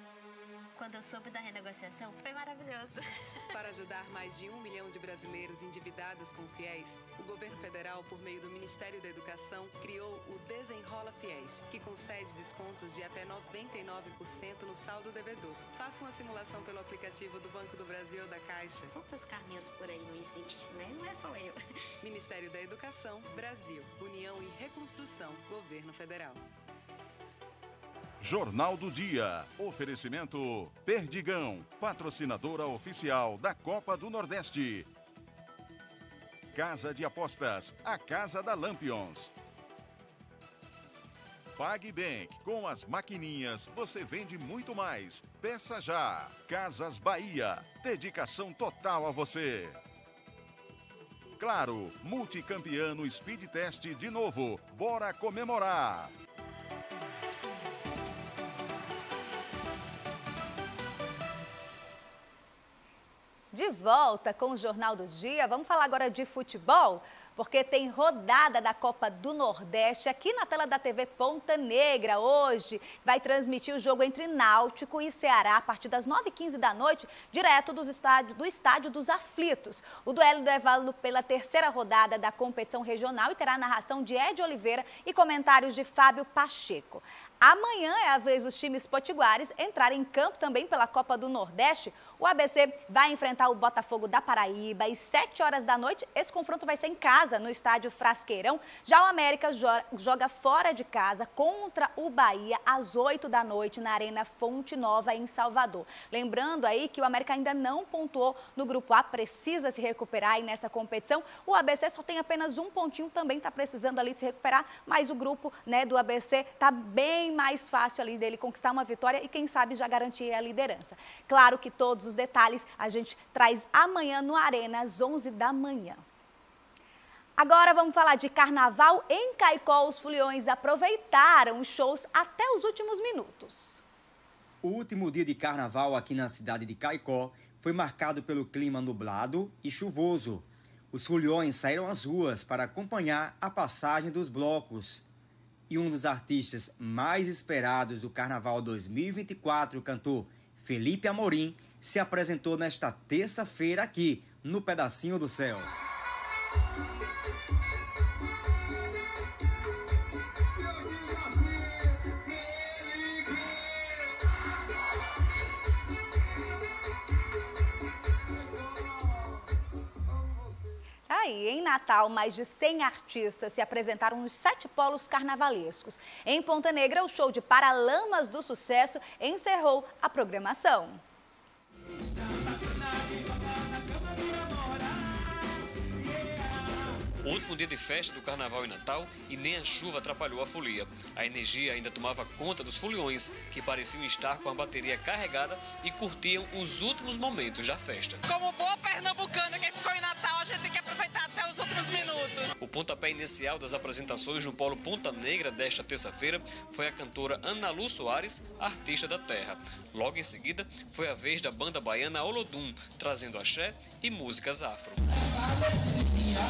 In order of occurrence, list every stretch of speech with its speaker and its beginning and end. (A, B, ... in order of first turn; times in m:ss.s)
0:00.8-0:03.0 A
0:03.5-0:18.9 B
0:18.9-0:21.6 A
0:22.0-0:26.4 B
0:28.2-0:34.9 C
0:36.5-0:39.3 C
0:41.6-0:49.8 C
0:51.4-0:56.1 C
1:03.5-2:06.0 D
2:07.4-2:13.8 D
2:14.6-2:25.0 E
2:25.7-2:35.7 E
2:51.1-3:01.0 D
3:07.2-3:18.2 F
3:18.3-3:22.4 G
3:22.6-3:35.0 F